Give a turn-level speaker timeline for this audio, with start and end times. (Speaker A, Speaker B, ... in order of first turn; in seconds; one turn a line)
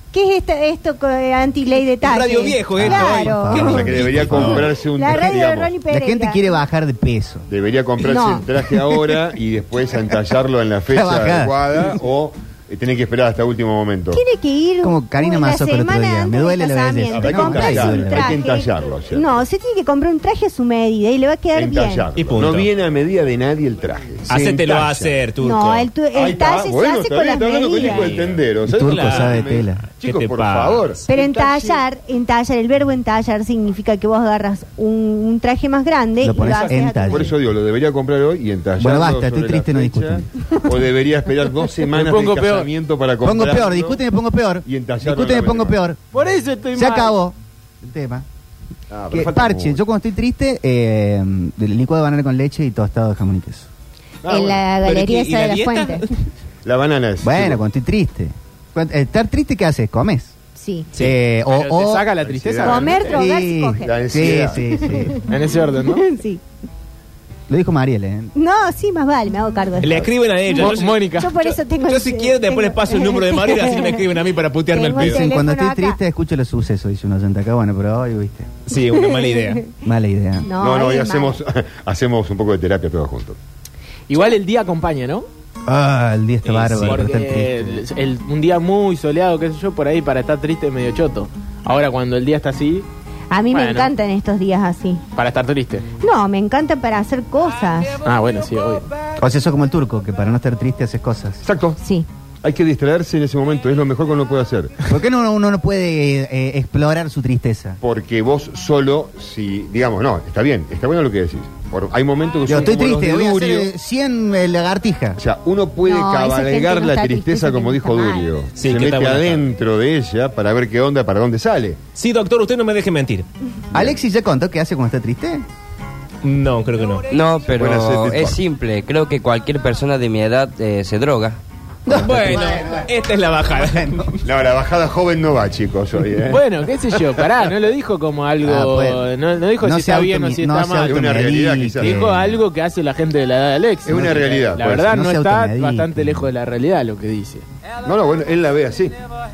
Speaker A: 0.1-4.1
Speaker B: 2.0-4.7
Speaker C: 2.8-4.7
Speaker D: 3.5-5.7
Speaker A: 4.9-6.4
Speaker C: 5.9-7.5
Speaker D: 7.5-14.2
Speaker A: 8.0-8.5
Speaker C: 10.9-11.8
Speaker A: 14.1-22.1
Speaker C: 14.8-18.4
Speaker D: 17.1-19.4
Speaker B: 17.1-17.4
Speaker D: 21.5-25.2
Speaker B: 22.1-22.7
Speaker B: 24.3-25.9
Speaker A: 25.4-28.2
Speaker D: 26.1-31.7
Speaker B: 27.8-31.0
Speaker C: 28.6-29.8
Speaker A: 31.1-37.4
Speaker C: 36.2-37.3
Speaker D: 37.1-44.0
Speaker C: 38.8-40.3
Speaker E: 41.9-42.7
Speaker C: 43.2-46.0
Speaker D: 44.6-45.8
Speaker E: 46.1-47.2
Speaker C: 46.8-48.2
Speaker D: 48.9-49.8
Speaker C: 49.1-53.7
Speaker D: 54.2-54.6
Speaker A: 54.2-56.1
Speaker B: 54.8-56.1
Speaker D: 56.6-57.6
Speaker C: 57.2-60.4
Speaker A: 60.5-60.9
Speaker C: 61.0-62.1
Speaker E: 61.5-63.2
Speaker D: 62.2-63.2
Speaker A: 62.6-64.0
Speaker C: 63.1-65.2
Speaker D: 63.8-65.1
Speaker A: 64.9-65.2
Speaker E: 65.3-66.0
Speaker A: 65.7-66.4
Speaker C: 67.5-68.3
Speaker A: 68.3-74.1
Speaker B: 69.8-75.2
Speaker E: 70.6-71.3
Speaker A: 74.7-76.0
Speaker C: 75.0-78.5
Speaker B: 78.7-79.6
Speaker A: 78.8-79.8
Speaker C: 79.8-80.5
Speaker A: 80.4-81.4
Speaker D: 80.6-83.4
Speaker E: 84.1-85.3
Speaker C: 85.7-87.8
Speaker B: 86.5-87.0
Speaker E: 86.8-92.9
Speaker A: 93.3-95.0
Speaker E: 93.5-93.9
Speaker E: 95.2-95.9
Speaker A: 96.0-98.0
Speaker E: 98.0-98.9
Speaker C: 99.2-101.4
Speaker D: 101.4-101.8
Speaker A: 101.8-102.1
Speaker D: 102.4-104.8
Speaker C: 104.9-107.8
Speaker D: 107.8-113.7
Speaker C: 112.5-115.2
Speaker D: 115.2-121.8
Speaker A: 115.8-118.3
Speaker B: 118.6-119.5
Speaker B: 122.0-123.2
Speaker C: 123.7-125.4
Speaker B: 126.2-127.0
Speaker F: 127.1-131.4
Speaker D: 127.5-128.4
Speaker C: 131.9-132.9
Speaker B: 131.9-134.2
Speaker C: 133.5-134.1
Speaker D: 134.2-136.4
Speaker E: 136.3-141.2
Speaker C: 138.4-142.4
Speaker D: 140.8-142.2
Speaker E: 141.8-147.4
Speaker D: 143.8-144.9
Speaker C: 143.9-144.2
Speaker C: 144.8-146.3
Speaker D: 147.8-149.0